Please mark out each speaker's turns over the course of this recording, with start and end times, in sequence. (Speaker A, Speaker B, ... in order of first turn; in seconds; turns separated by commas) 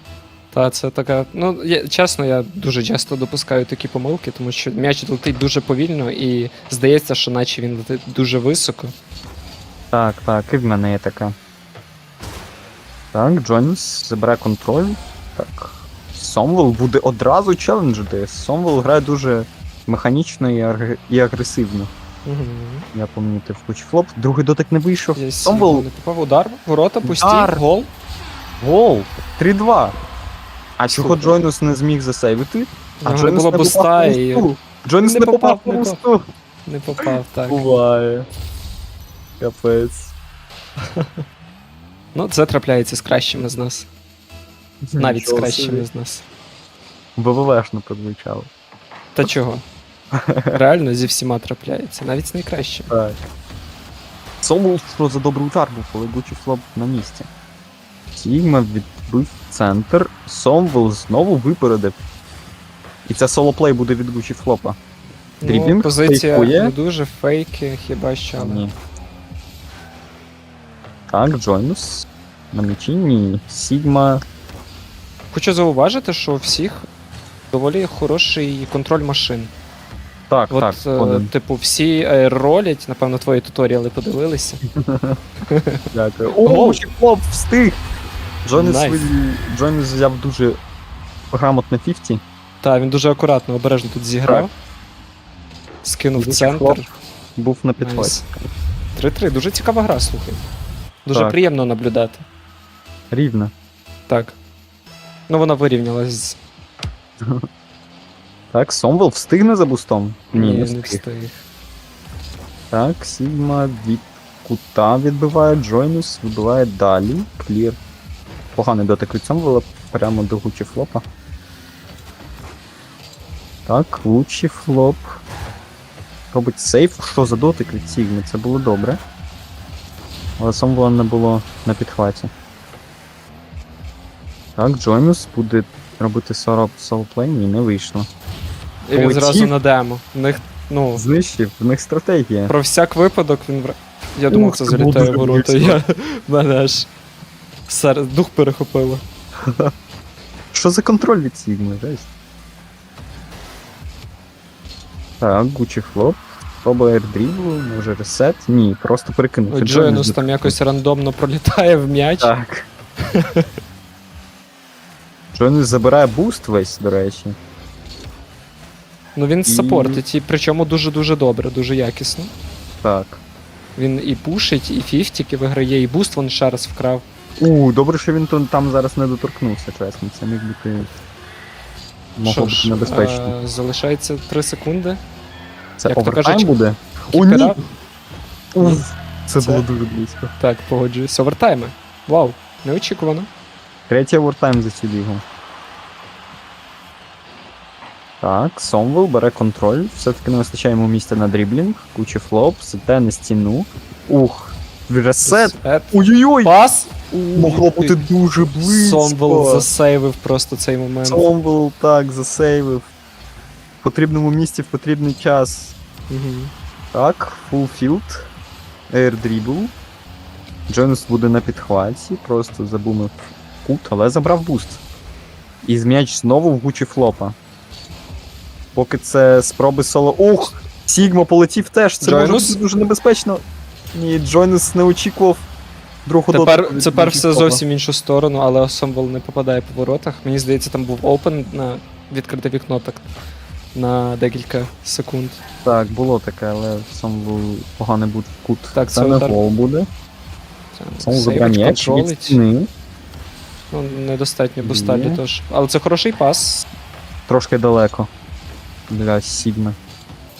Speaker A: 0.5-8.9, Speaker B: 9.9-11.3, Speaker B: 13.1-21.9, Speaker A: 22.2-22.9, Speaker B: 22.9-25.9, Speaker A: 25.2-27.9, Speaker B: 27.0-27.6, Speaker B: 28.6-30.0, Speaker B: 30.8-36.3, Speaker A: 30.9-31.4, Speaker A: 33.0-34.5, Speaker A: 35.0-36.0, Speaker A: 36.7-37.8, Speaker B: 37.0-38.3, Speaker B: 39.4-40.1, Speaker A: 42.1-43.9, Speaker B: 44.9-45.9, Speaker A: 45.0-46.2, Speaker B: 47.2-48.5, Speaker A: 49.1-49.6, Speaker B: 50.3-50.6, Speaker A: 50.5-52.9, Speaker B: 52.9-53.2, Speaker B: 54.4-57.3, Speaker B: 58.2-62.0, Speaker B: 63.1-64.8, Speaker A: 65.4-68.7, Speaker B: 65.4-66.8, Speaker B: 68.4-68.7, Speaker B: 71.1-74.2, Speaker A: 75.3-76.9, Speaker A: 77.5-79.5, Speaker B: 80.3-81.3, Speaker A: 80.5-84.6, Speaker B: 84.8-85.2, Speaker A: 85.5-85.8, Speaker B: 85.9-87.8, Speaker A: 86.4-86.8, Speaker B: 88.5-90.6, Speaker A: 88.5-89.1, Speaker B: 91.3-92.2, Speaker A: 92.6-94.5, Speaker A: 95.8-96.9, Speaker B: 96.2-98.3, Speaker A: 97.8-98.3, Speaker A: 99.0-100.5, Speaker A: 101.0-102.3, Speaker B: 101.1-101.4, Speaker B: 103.1-103.5, Speaker A: 104.1-104.4, Speaker A: 105.3-106.4, Speaker B: 108.5-111.0, Speaker A: 110.3-111.4, Speaker B: 112.7-117.8, Speaker B: 118.6-121.0, Speaker B: 123.7-125.2, Speaker B: 126.3-129.0, Speaker B: 130.4-132.3, Speaker B: 134.6-138.1, Speaker A: 138.8-141.0, Speaker B: 138.9-139.5, Speaker B: 141.0-142.6, Speaker A: 142.5-146.9, Speaker B: 144.3-145.8, Speaker A: 147.7-149.0, Speaker B: 149.5-149.7, Speaker B: 150.5-152.1, Speaker B: 155.2-160.6, Speaker A: 159.5-162.3, Speaker B: 162.2-162.7, Speaker A: 163.2-163.4, Speaker B: 165.3-167.4, Speaker A: 169.2-172.3, Speaker B: 169.4-170.0, Speaker B: 172.8-173.2, Speaker A: 173.8-177.1, Speaker B: 177.4-180.9, Speaker B: 182.2-183.3, Speaker A: 182.2-185.0, Speaker B: 185.8-187.6, Speaker A: 185.9-186.5, Speaker A: 187.1-187.6, Speaker B: 188.5-190.3, Speaker A: 188.6-188.8, Speaker A: 189.4-189.7, Speaker A: 190.4-193.3, Speaker B: 193.9-195.2, Speaker B: 198.2-206.5, Speaker A: 205.2-208.0, Speaker B: 207.3-209.7, Speaker A: 208.6-211.3, Speaker B: 211.0-212.9, Speaker B: 213.8-215.8, Speaker A: 216.1-216.5, Speaker B: 216.9-218.3, Speaker B: 218.9-219.7, Speaker B: 220.7-224.8, Speaker B: 225.6-227.4, Speaker B: 228.8-233.4, Speaker A: 232.0-232.6, Speaker B: 233.9-235.5, Speaker B: 236.1-237.6, Speaker A: 236.3-243.1, Speaker A: 243.7-245.4, Speaker B: 245.7-249.9, Speaker A: 248.7-249.4, Speaker A: 250.7-252.4, Speaker B: 251.0-252.7, Speaker A: 253.7-256.7, Speaker B: 254.6-255.2, Speaker B: 257.3-258.1, Speaker B: 258.9-259.8